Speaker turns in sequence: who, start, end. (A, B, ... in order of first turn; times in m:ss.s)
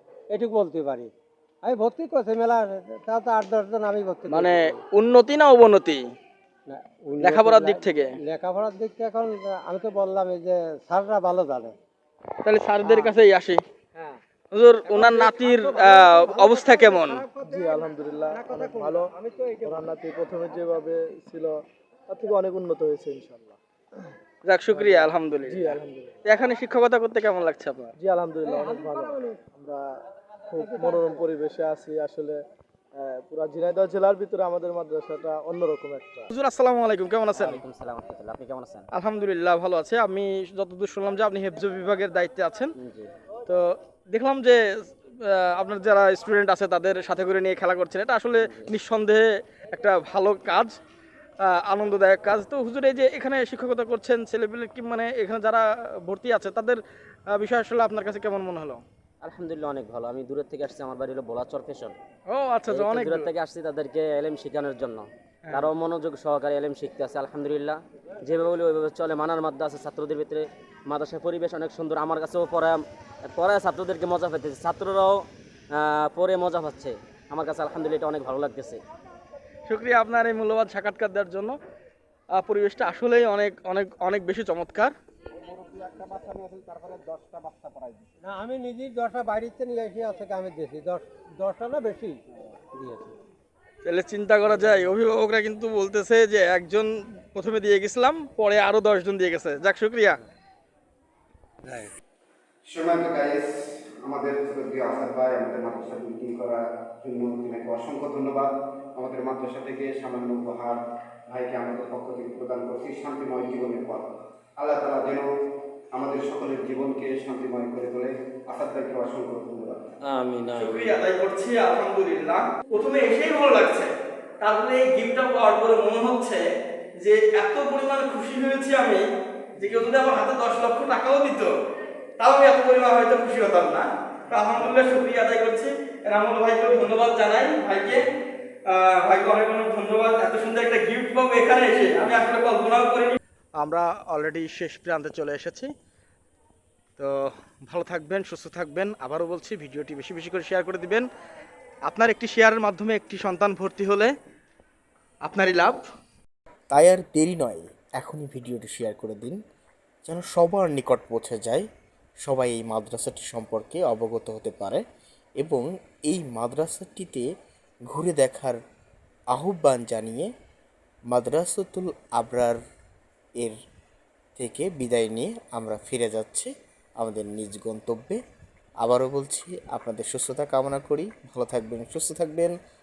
0:00.3-0:01.1 A
0:01.6-0:04.8 A
0:04.3-0:06.0 B
0:06.7-0:11.8 A
0:07.2-0:08.1 B
0:12.4-0:13.6 B
0:12.8-0:13.1 A
0:14.5-0:17.2 B
0:14.8-0:19.8 A
0:17.4-0:23.6 C
0:24.4-0:27.9 B
0:24.7-0:26.2 C
0:28.0-0:29.8 C
0:28.5-0:29.4 A
0:30.5-0:32.4 C
0:30.6-0:31.1 A
0:32.9-0:36.3 C
0:36.3-0:37.6 B
0:37.4-0:38.9 D
0:38.9-0:42.7 B
0:43.5-0:44.6 B
0:45.2-0:50.7 B
0:51.4-0:58.8 B
0:59.2-1:02.0 D
1:02.3-1:03.3 B
1:02.7-1:15.2 D
1:05.4-1:05.7 B
1:15.8-1:18.8 D
1:19.7-1:21.6 B
1:22.4-1:24.9 B
1:25.4-1:28.1 E
1:28.2-1:32.2 A
1:32.7-1:33.2 A
1:33.8-1:40.2 B
1:41.6-1:41.9 A
1:42.7-1:55.3 E
1:56.0-1:59.9 E
2:00.5-2:06.4 B
2:07.0-2:09.0 B
2:09.6-2:11.5 B
2:12.2-2:18.1 B
2:18.7-2:25.7 B
2:27.0-2:31.1 B
2:31.9-2:34.1 B
2:35.2-2:35.8 B
2:36.7-2:39.4 F
2:40.0-2:41.7 F
2:42.2-2:44.8 F
2:45.4-2:47.3 F
2:47.9-2:48.6 F
2:49.3-2:50.3 F
2:51.1-2:52.6 F
2:54.4-2:58.2 F
2:58.8-3:02.6 F